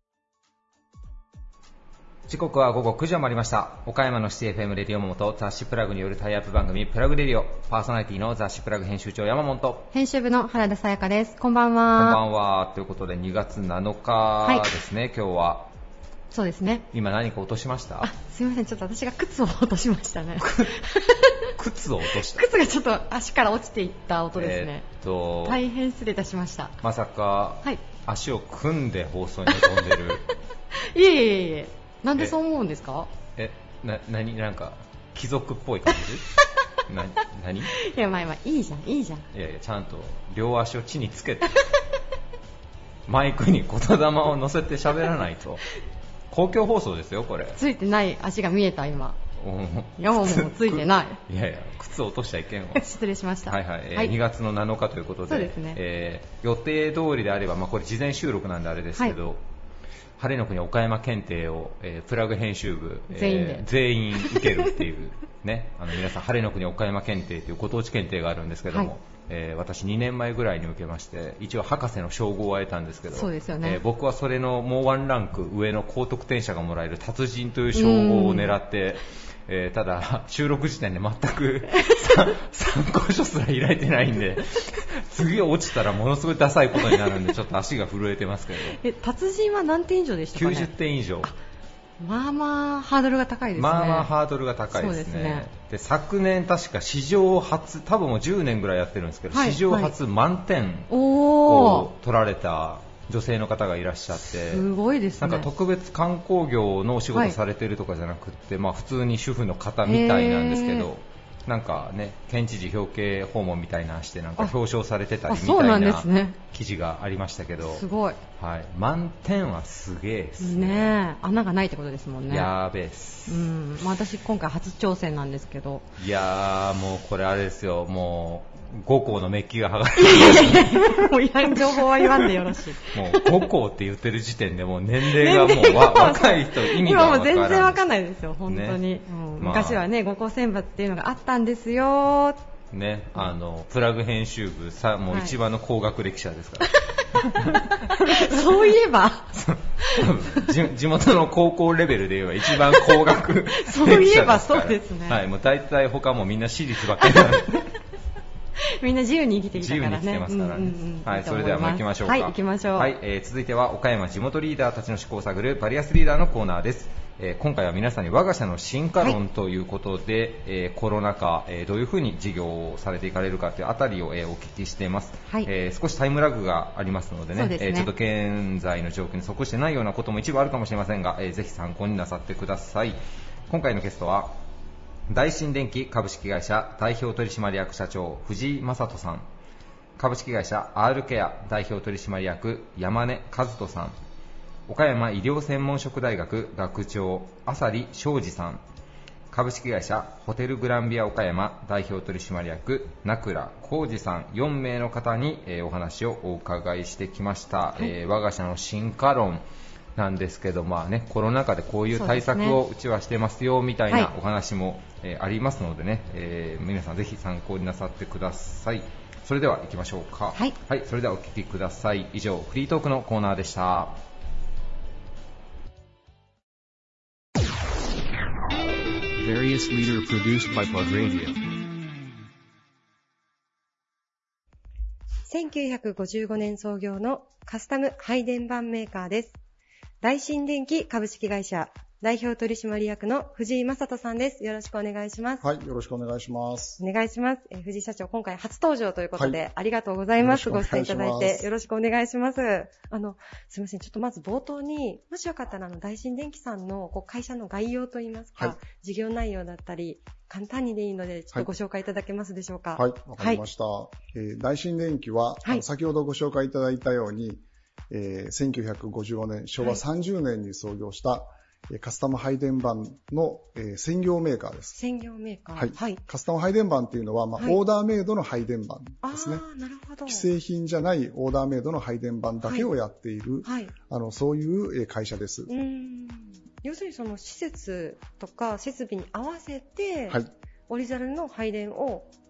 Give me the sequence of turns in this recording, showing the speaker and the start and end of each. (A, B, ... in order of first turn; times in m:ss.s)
0:02.3-0:09.9 A
0:09.9-0:12.2 B
0:11.9-0:15.7 A
0:14.4-0:14.7 B
0:16.3-0:16.9 B
0:16.9-0:18.1 A
0:18.0-0:21.5 B
0:20.4-0:20.7 A
0:21.6-0:22.5 A
0:22.1-0:24.9 B
0:24.4-0:25.6 A
0:25.4-0:26.8 B
0:26.8-0:30.2 A
0:29.5-0:30.0 B
0:30.9-0:33.1 B
0:33.4-0:36.2 A
0:36.9-0:37.7 A
0:37.7-0:39.3 B
0:39.3-0:41.6 A
0:43.1-0:45.6 A
0:46.3-0:47.6 A
0:47.5-0:49.2 B
0:49.4-0:52.9 A
0:50.0-0:51.2 B
0:52.8-0:54.2 B
0:53.5-0:59.4 A
0:55.3-0:55.8 B
1:00.2-1:28.8 A
1:03.1-1:04.7 B
1:08.7-1:08.9 B
1:13.1-1:13.8 B
1:17.7-1:18.6 B
1:21.7-1:22.1 B
1:26.8-1:27.2 B
1:28.7-1:31.4 B
1:30.3-1:31.3 A
1:32.0-1:34.1 B
1:33.5-1:40.9 A
1:34.7-1:35.5 B
1:39.3-1:40.0 B
1:40.9-1:41.9 B
1:41.4-1:44.7 A
1:44.4-1:45.5 B
1:45.2-1:57.8 A
1:47.1-1:47.4 B
1:49.8-1:50.9 B
1:55.3-1:56.4 B
1:57.6-1:58.2 B
1:58.4-2:01.0 A
2:00.4-2:02.5 B
2:02.3-2:03.4 A
2:03.3-2:05.9 B
2:06.0-2:10.8 A
2:10.0-2:13.5 B
2:11.7-2:12.4 A
2:12.9-2:17.8 A
2:15.0-2:22.4 B
2:18.5-2:18.8 A
2:19.4-2:19.8 A
2:22.7-2:26.7 A
2:25.1-2:25.4 B
2:27.2-2:30.1 B
2:29.4-2:37.6 A
2:32.5-2:35.2 B
2:38.8-2:43.0 B
2:39.6-3:04.4 A
2:57.4-2:57.9 B
3:05.1-3:09.3 A
3:10.0-3:14.0 A
3:14.7-3:18.6 A
3:19.3-3:29.4 A
3:30.0-3:44.0 A
3:31.9-3:32.6 B
3:49.1-3:51.4 C
3:55.3-3:59.4 D
4:00.0-4:05.4 D
4:05.4-4:06.8 E
4:06.8-4:23.4 D
4:09.2-4:09.4 E
4:10.2-4:11.5 E
4:22.8-4:34.8 E
4:34.8-4:36.0 D
4:35.6-4:39.4 E
4:39.0-4:40.3 D
4:40.1-4:45.5 E
4:42.4-4:42.7 D
4:43.4-4:43.7 D
4:45.5-4:52.1 D